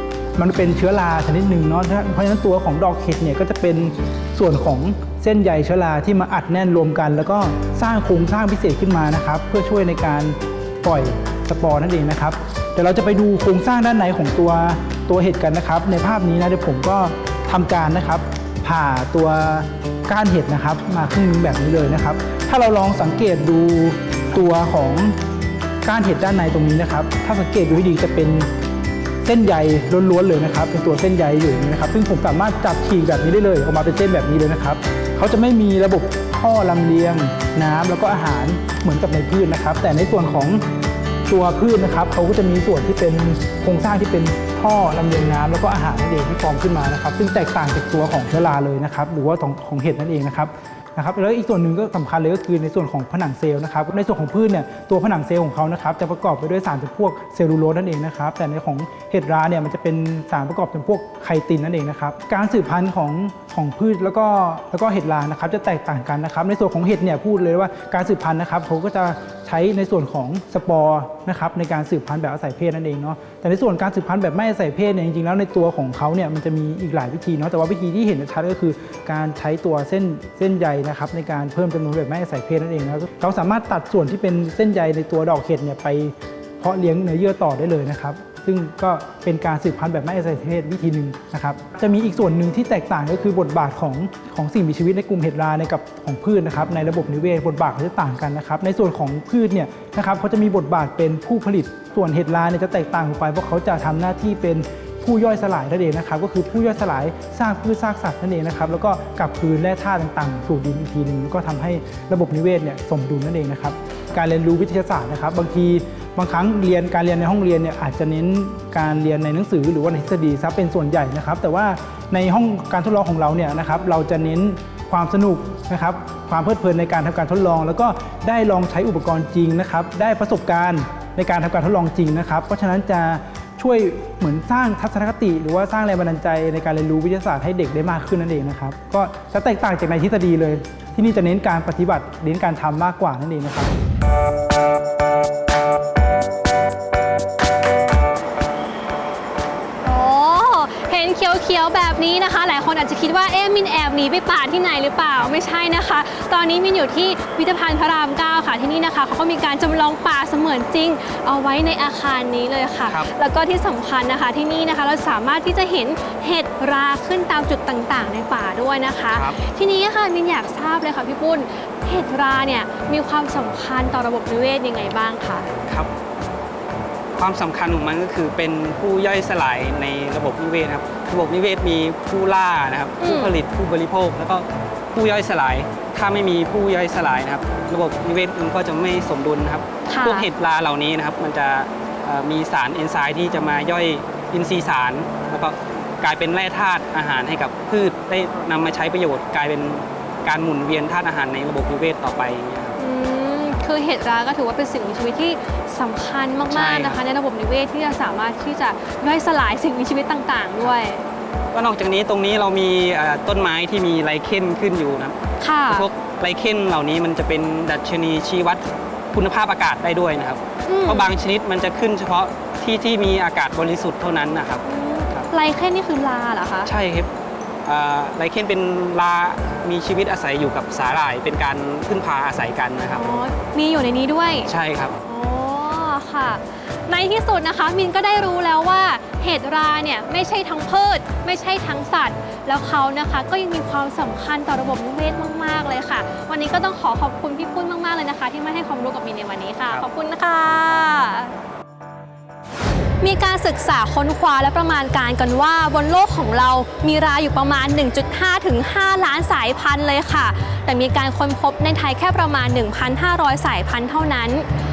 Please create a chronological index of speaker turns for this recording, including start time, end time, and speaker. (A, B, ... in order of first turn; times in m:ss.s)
0:00.4-0:25.2 A
0:25.8-0:28.5 A
0:29.2-0:40.6 A
0:41.3-2:23.7 A
2:29.8-2:55.5 B
2:49.1-2:49.4 C
2:57.1-3:22.8 C
3:03.0-3:03.3 B
3:09.9-3:10.3 B
3:22.8-3:31.0 B
3:26.5-3:27.0 C
3:31.5-3:35.2 C
3:35.4-3:35.9 B
3:35.7-3:45.3 C
3:40.6-3:41.1 B
3:44.6-3:46.7 B
3:46.6-3:47.1 C
3:47.6-3:53.0 C
3:52.9-3:54.5 B
3:54.5-3:55.0 C
3:55.0-4:11.3 B
4:13.0-4:24.4 B